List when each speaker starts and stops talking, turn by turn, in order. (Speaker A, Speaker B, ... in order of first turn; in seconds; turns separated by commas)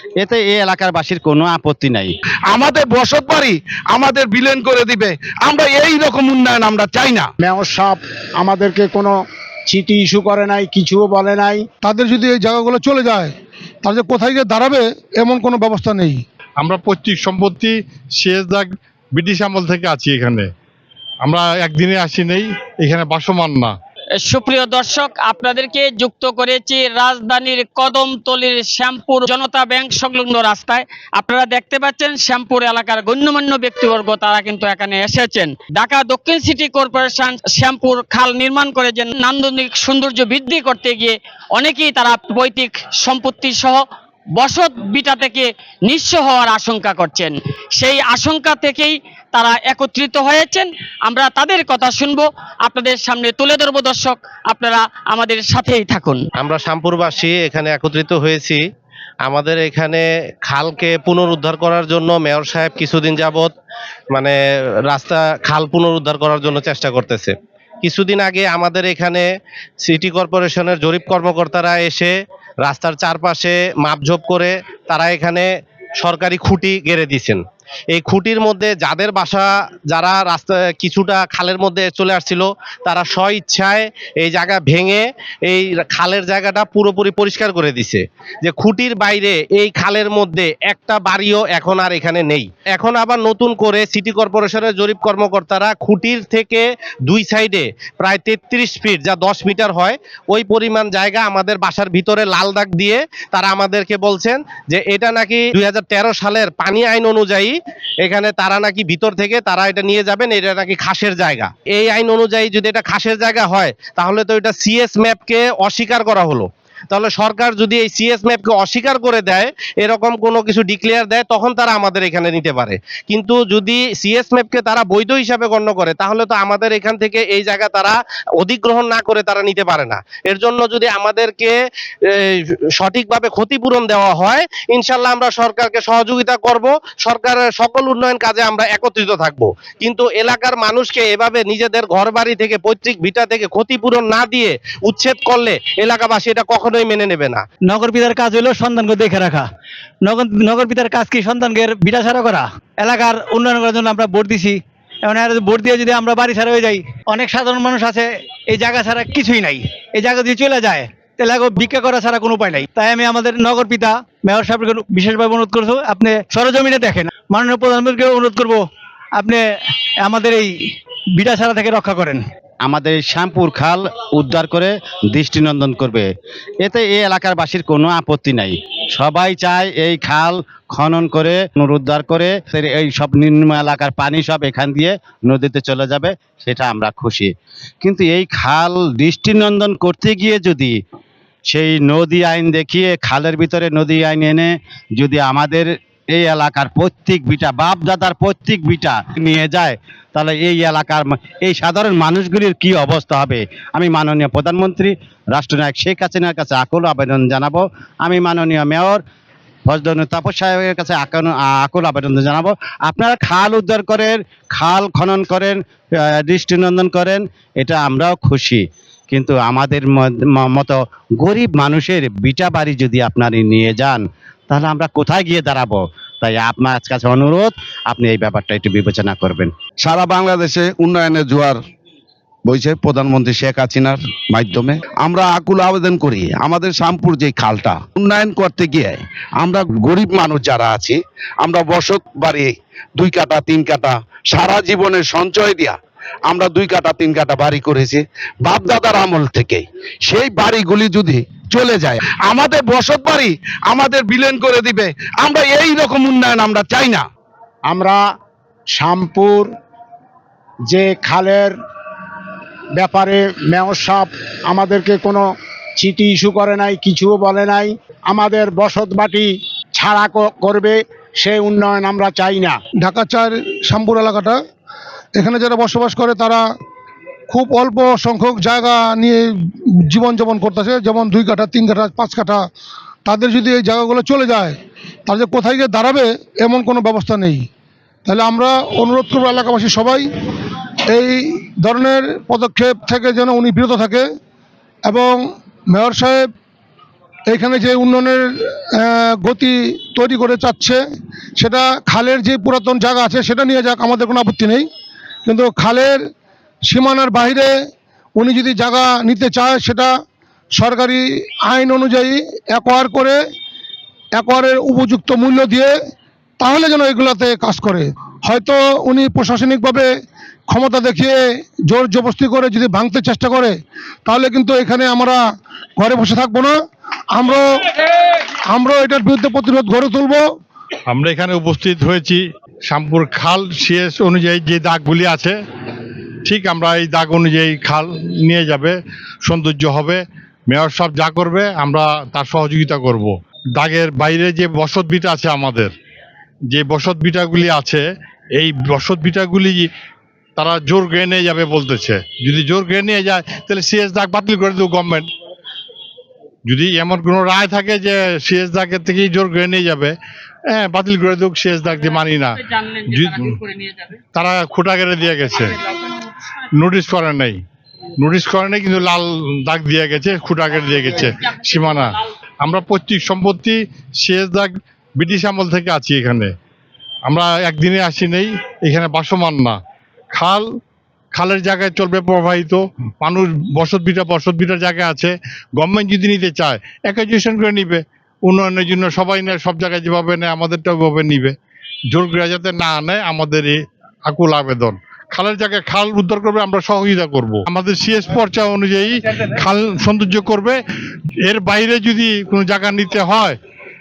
Speaker A: 0.2-2.1, Speaker B: 2.5-7.3, Speaker C: 7.4-9.2, Speaker C: 9.7-11.6, Speaker D: 11.8-16.2, Speaker E: 16.6-20.5, Speaker E: 21.2-23.7, Speaker F: 24.2-43.8, Speaker F: 44.4-56.2, Speaker G: 56.4-58.6, Speaker G: 59.2-63.5, Speaker G: 64.9-69.3, Speaker G: 69.8-75.5, Speaker G: 76.0-77.4, Speaker G: 77.9-131.5, Speaker G: 132.1-147.4, Speaker H: 147.7-149.5, Speaker H: 150.1-168.7, Speaker H: 169.2-169.4, Speaker H: 170.0-170.5, Speaker H: 171.2-172.2, Speaker A: 172.6-176.1, Speaker A: 176.6-190.8, Speaker A: 191.5-209.0, Speaker A: 209.7-215.6, Speaker A: 216.2-229.5, Speaker B: 229.8-231.6, Speaker B: 232.5-245.8, Speaker B: 246.3-257.1, Speaker C: 257.7-258.0, Speaker C: 258.7-259.5, Speaker C: 260.7-261.5, Speaker C: 262.8-265.2, Speaker C: 265.8-272.6, Speaker D: 272.8-274.4, Speaker D: 275.1-276.4, Speaker D: 277.3-282.4, Speaker D: 283.1-287.5, Speaker D: 288.1-290.1, Speaker D: 290.9-294.1, Speaker D: 294.9-296.3, Speaker D: 297.3-300.8, Speaker D: 301.4-304.7, Speaker D: 305.3-306.0, Speaker D: 306.6-307.5, Speaker D: 308.2-309.9, Speaker D: 310.5-313.2, Speaker D: 314.2-315.8, Speaker D: 316.4-319.9, Speaker D: 320.5-325.2, Speaker D: 325.8-326.6, Speaker D: 327.1-327.6, Speaker D: 328.5-330.3, Speaker E: 330.9-335.4, Speaker E: 336.2-345.7, Speaker E: 346.5-347.8, Speaker E: 348.4-349.7, Speaker E: 350.4-355.1, Speaker E: 356.5-359.9, Speaker E: 360.5-363.4, Speaker F: 362.5-364.0, Speaker E: 364.1-365.6, Speaker E: 366.6-367.4, Speaker E: 368.0-376.3, Speaker E: 377.1-379.6, Speaker E: 380.1-380.4, Speaker E: 381.1-391.4, Speaker E: 391.9-400.6, Speaker E: 401.3-403.4